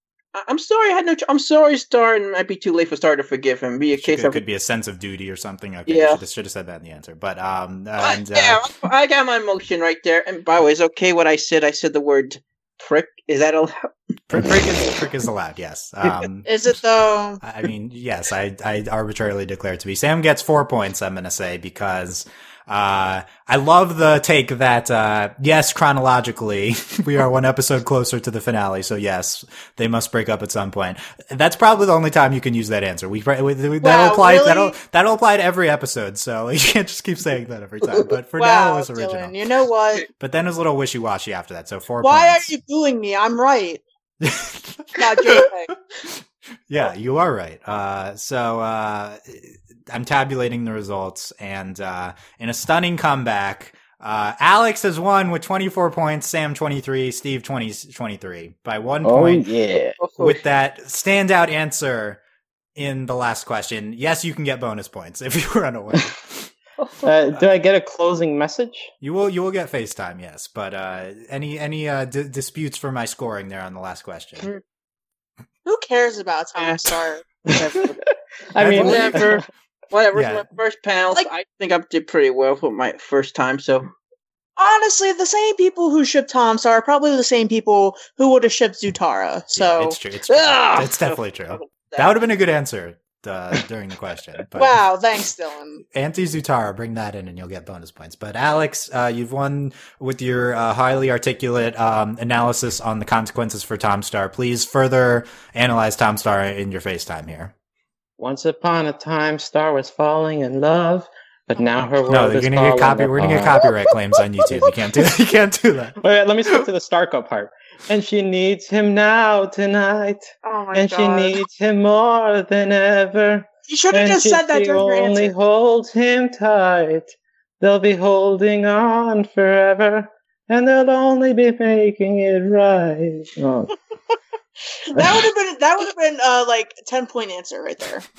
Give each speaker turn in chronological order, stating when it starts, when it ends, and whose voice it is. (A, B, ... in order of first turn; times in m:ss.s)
0:00.3-0:04.4 A
0:04.0-0:08.6 B
0:05.9-0:06.2 A
0:08.0-0:14.6 A
0:14.3-0:16.5 B
0:16.4-0:17.4 C
0:17.4-0:39.3 B
0:33.8-0:34.8 C
0:38.4-0:40.1 C
0:40.2-0:42.5 B
0:42.0-0:43.8 C
0:44.2-0:45.5 B
0:45.0-0:45.7 C
0:46.7-0:59.4 B
0:59.0-1:00.0 D
1:00.0-1:00.4 A
1:00.2-1:02.2 B
1:02.8-1:06.5 B
1:07.0-1:08.9 D
1:09.0-1:14.5 B
1:15.6-1:17.2 C
1:16.6-1:18.0 A
1:18.5-1:19.4 D
1:18.6-1:19.3 B
1:18.7-1:23.9 A
1:20.1-1:20.4 B
1:24.6-1:30.0 C
1:29.6-1:34.8 B
1:30.3-1:32.2 A
1:34.6-1:35.8 C
1:35.9-1:47.5 B
1:48.2-1:53.7 D
1:52.1-1:56.0 B
1:56.0-2:13.7 D
2:00.4-2:01.4 C
2:03.7-2:05.3 C
2:14.9-2:18.0 C
2:14.9-2:15.2 D